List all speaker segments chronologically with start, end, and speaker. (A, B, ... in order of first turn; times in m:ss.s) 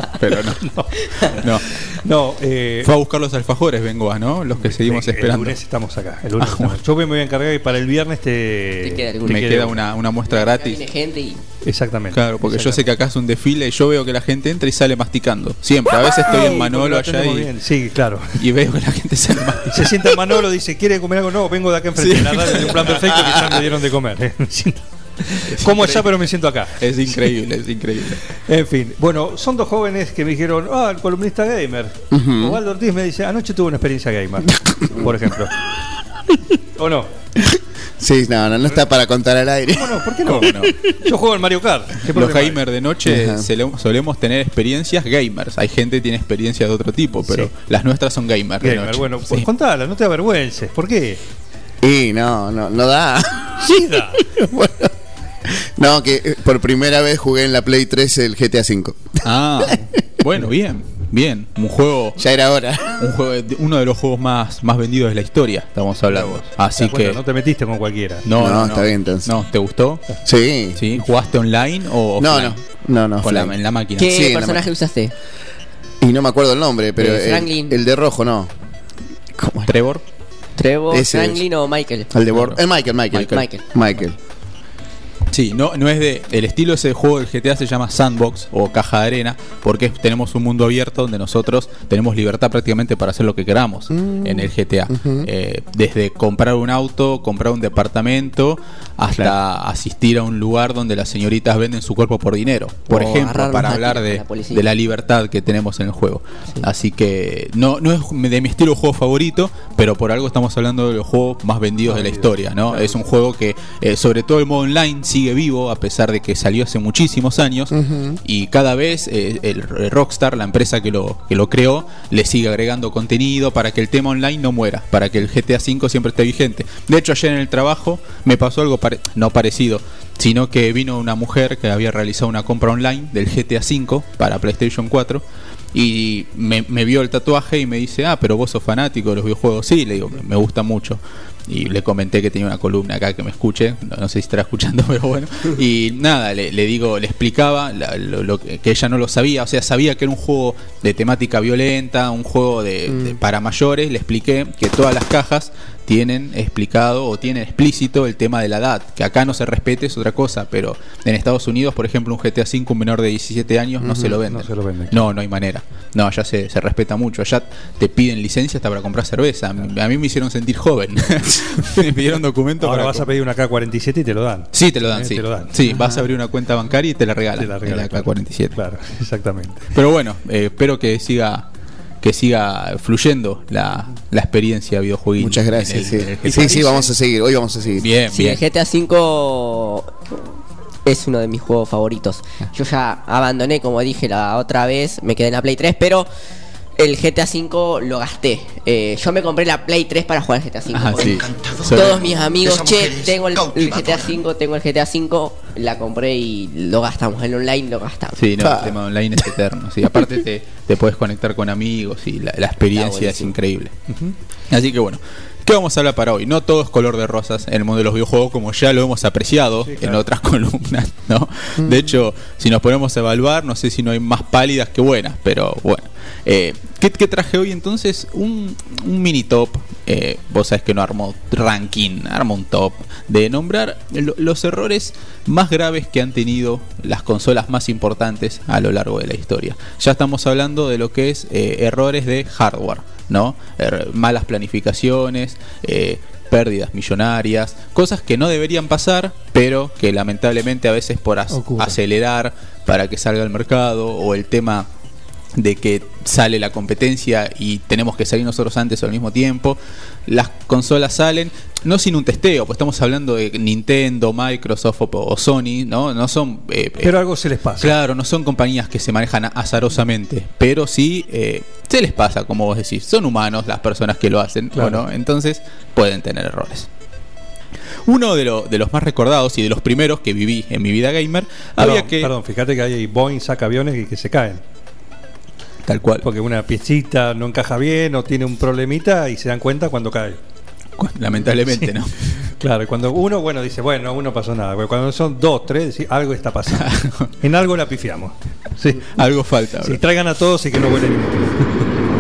0:00.2-0:00.8 A
0:00.7-0:02.9 B
0:01.3-0:01.8 A
0:02.8-0:05.6 A
0:04.6-0:09.8 B
0:06.4-0:06.8 A
0:08.8-0:09.6 C
0:09.2-0:10.8 A
0:10.3-0:11.4 C
0:11.6-0:12.9 B
0:12.1-0:17.5 A
0:16.2-0:18.4 B
0:18.4-0:20.2 A
0:19.7-0:27.3 B
0:22.0-0:23.0 A
0:25.5-0:26.1 A
0:26.8-0:28.2 A
0:28.3-0:35.6 B
0:32.1-0:32.6 D
0:36.8-0:37.1 B
0:37.4-0:40.5 D
0:39.7-0:42.6 B
0:40.3-0:40.8 A
0:42.1-0:49.5 A
0:43.1-0:43.5 D
0:47.2-0:47.5 B
0:48.6-0:51.2 B
0:51.8-0:54.9 D
0:53.6-0:54.2 B
0:55.4-0:59.2 D
0:59.2-1:02.2 A
1:02.2-1:03.1 D
1:03.0-1:07.2 A
1:06.1-1:08.3 B
1:08.2-1:10.0 A
1:08.4-1:09.3 D
1:10.2-1:10.9 D
1:10.8-1:12.6 A
1:12.2-1:14.7 D
1:13.2-1:14.3 A
1:14.0-1:15.1 C
1:16.0-1:18.5 D
1:17.0-1:17.8 C
1:19.4-1:19.7 D
1:19.7-1:20.0 A
1:20.6-1:22.1 C
1:20.9-1:21.4 D
1:22.1-1:24.2 D
1:22.3-1:22.6 A
1:23.1-1:23.4 A
1:23.2-1:23.6 C
1:25.3-2:53.1 A
1:33.9-1:35.2 D
1:42.9-1:44.7 C
1:51.8-1:53.0 B
1:57.7-1:58.2 D
2:43.8-2:44.1 D
2:44.2-2:45.1 B
2:52.6-2:55.6 B
2:54.5-2:58.6 A
2:55.6-2:55.9 D
2:57.4-2:59.7 B
2:59.7-3:01.5 A
3:02.0-3:06.8 A
3:05.2-3:07.9 D
3:06.2-3:06.9 B
3:07.8-3:08.4 A
3:08.1-3:10.0 C
3:10.8-3:16.1 C
3:16.8-3:28.2 C
3:20.7-3:22.2 A
3:28.2-3:33.7 A
3:32.7-3:33.3 C
3:33.9-3:34.2 B
3:34.5-4:14.7 A
3:39.6-3:40.0 B
4:11.3-4:11.8 B
4:15.4-4:27.0 A
4:26.8-4:27.8 B
4:27.6-4:36.7 A
4:34.6-4:34.8 B
4:37.9-4:42.1 A
4:41.6-4:44.4 B
4:45.7-4:46.1 A
4:46.0-4:50.2 B
4:50.8-4:52.0 A
4:51.5-4:58.9 B
4:56.6-4:57.1 A
4:58.9-4:59.8 A
4:59.6-5:01.7 B